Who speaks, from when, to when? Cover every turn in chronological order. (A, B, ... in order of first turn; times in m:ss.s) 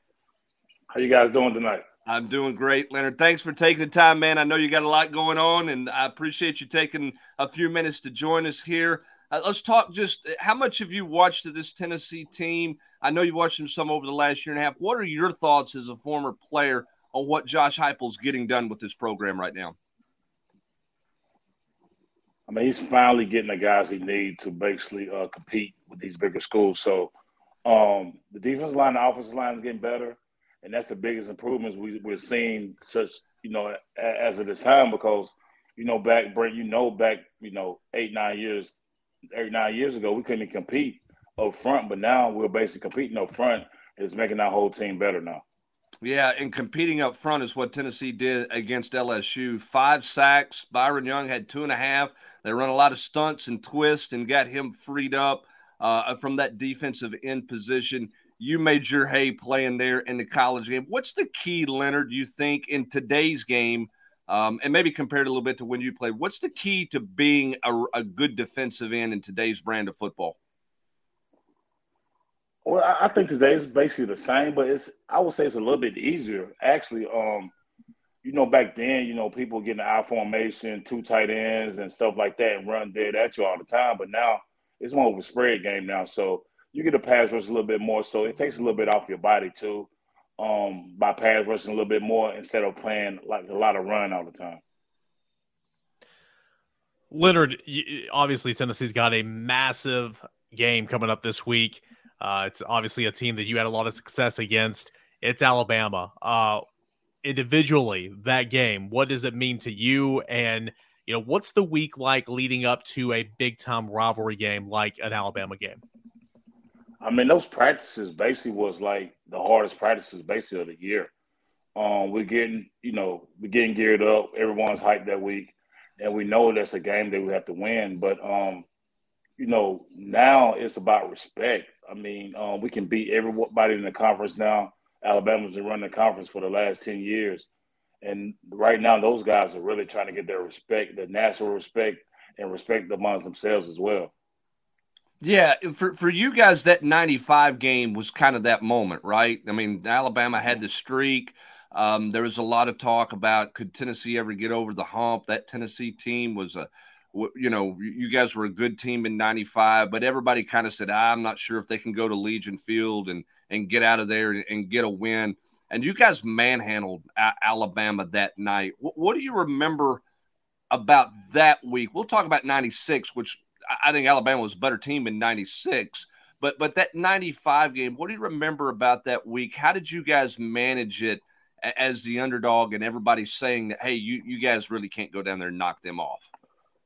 0:00.9-0:01.8 A
0:02.1-0:19.8 B
0:22.5-0:27.1 A
0:27.6-0:38.7 A
0:39.3-0:45.4 A
0:46.0-1:10.4 B
1:12.6-1:17.5 A
1:18.2-1:34.6 A
1:37.1-1:46.6 C
1:47.2-1:55.8 C
1:57.0-2:01.1 A
2:01.8-2:08.7 A
2:09.4-2:17.5 A
2:18.0-2:24.1 A
2:25.2-2:50.0 B
2:50.7-3:06.3 B